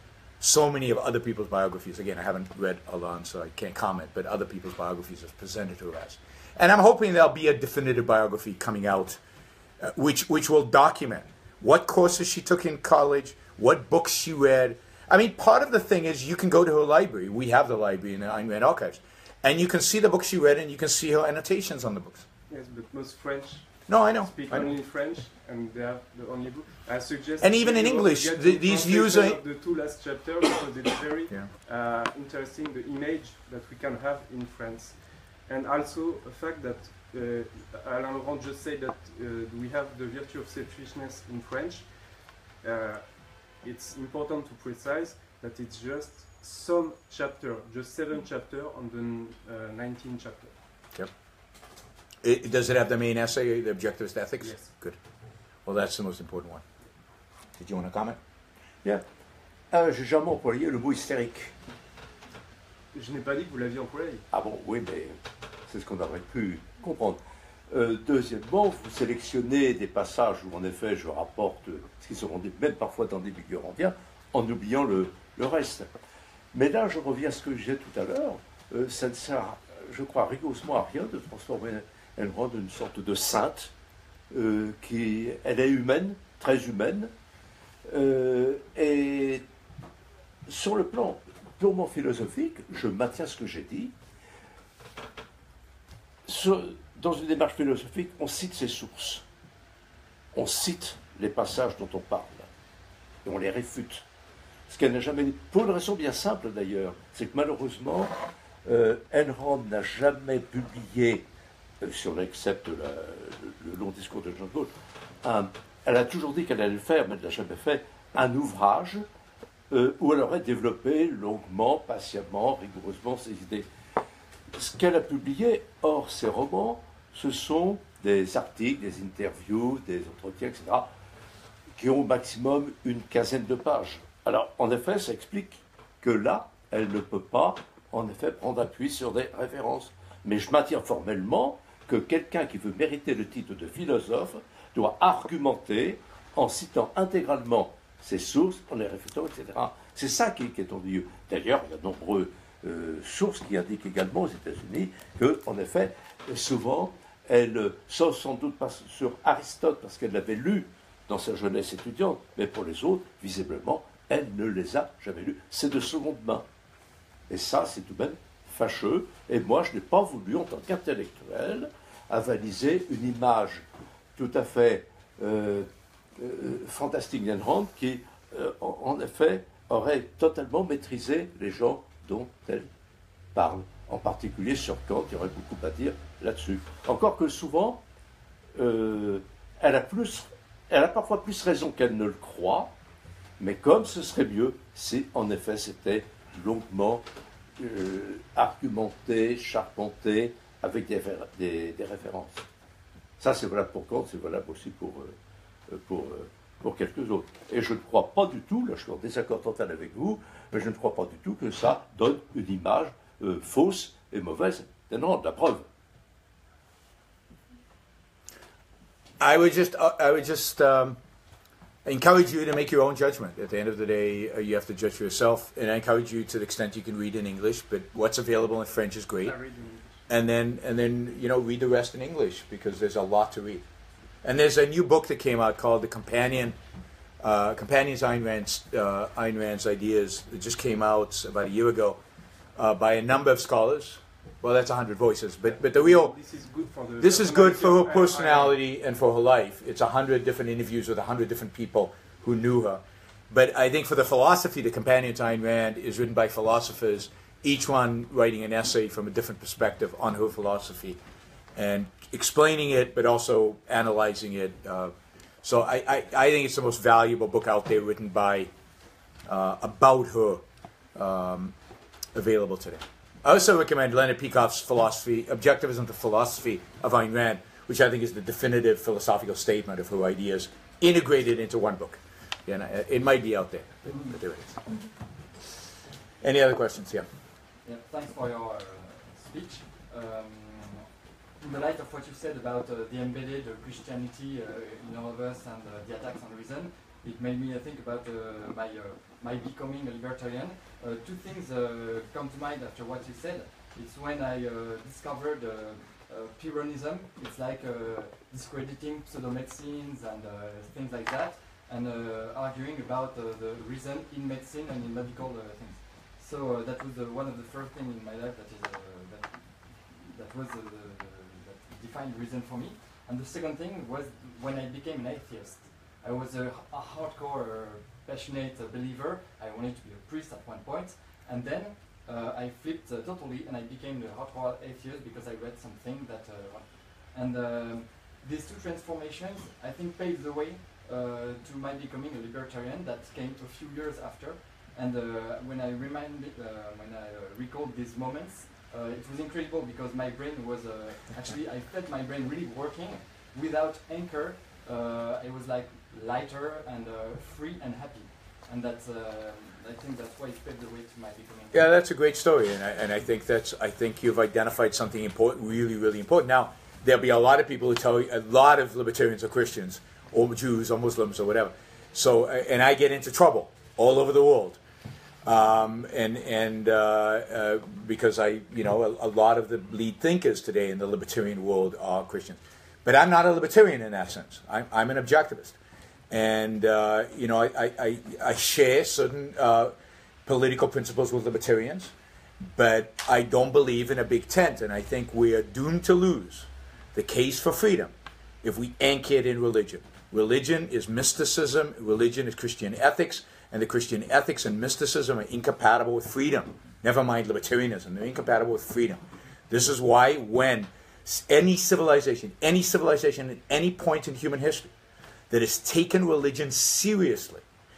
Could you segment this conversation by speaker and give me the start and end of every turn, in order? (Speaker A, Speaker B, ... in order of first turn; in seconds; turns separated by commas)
Speaker A: 0.4-9.2, Speaker A: 9.8-22.2, Speaker B: 22.5-50.5, Speaker A: 23.9-24.8, Speaker A: 27.4-29.4, Speaker A: 52.2-55.0, Speaker B: 54.4-54.7, Speaker A: 55.6-56.6, Speaker A: 57.6-58.2, Speaker C: 59.7-61.5, Speaker B: 62.9-64.2, Speaker C: 64.3-75.9, Speaker C: 76.5-83.7, Speaker C: 84.3-87.1, Speaker C: 87.8-89.5, Speaker C: 90.5-94.0, Speaker C: 96.2-99.2, Speaker C: 100.3-102.5, Speaker C: 103.2-104.0, Speaker C: 104.7-111.3, Speaker C: 111.8-114.7, Speaker C: 115.2-119.1, Speaker C: 119.7-123.7, Speaker C: 124.5-130.9, Speaker C: 131.8-166.5, Speaker C: 167.3-173.6, Speaker C: 174.2-182.7, Speaker C: 183.3-187.8, Speaker C: 188.5-192.7, Speaker C: 193.4-197.1, Speaker C: 197.6-202.4, Speaker C: 203.2-205.2, Speaker C: 205.7-215.7, Speaker A: 219.2-221.0, Speaker A: 221.8-229.4, Speaker B: 229.2-230.1, Speaker A: 230.1-233.6, Speaker A: 234.2-236.6, Speaker A: 237.2-242.0, Speaker A: 242.6-246.2, Speaker B: 245.5-248.6, Speaker A: 247.0-261.0, Speaker A: 261.6-268.5, Speaker A: 269.3-270.4, Speaker A: 270.9-271.6, Speaker A: 272.1-284.5, Speaker A: 286.2-287.1, Speaker D: 287.6-361.7, Speaker A: 361.5-374.6, Speaker A: 375.2-385.6, Speaker A: 386.1-389.7, Speaker A: 390.3-391.9, Speaker A: 392.6-414.7, Speaker A: 415.3-417.4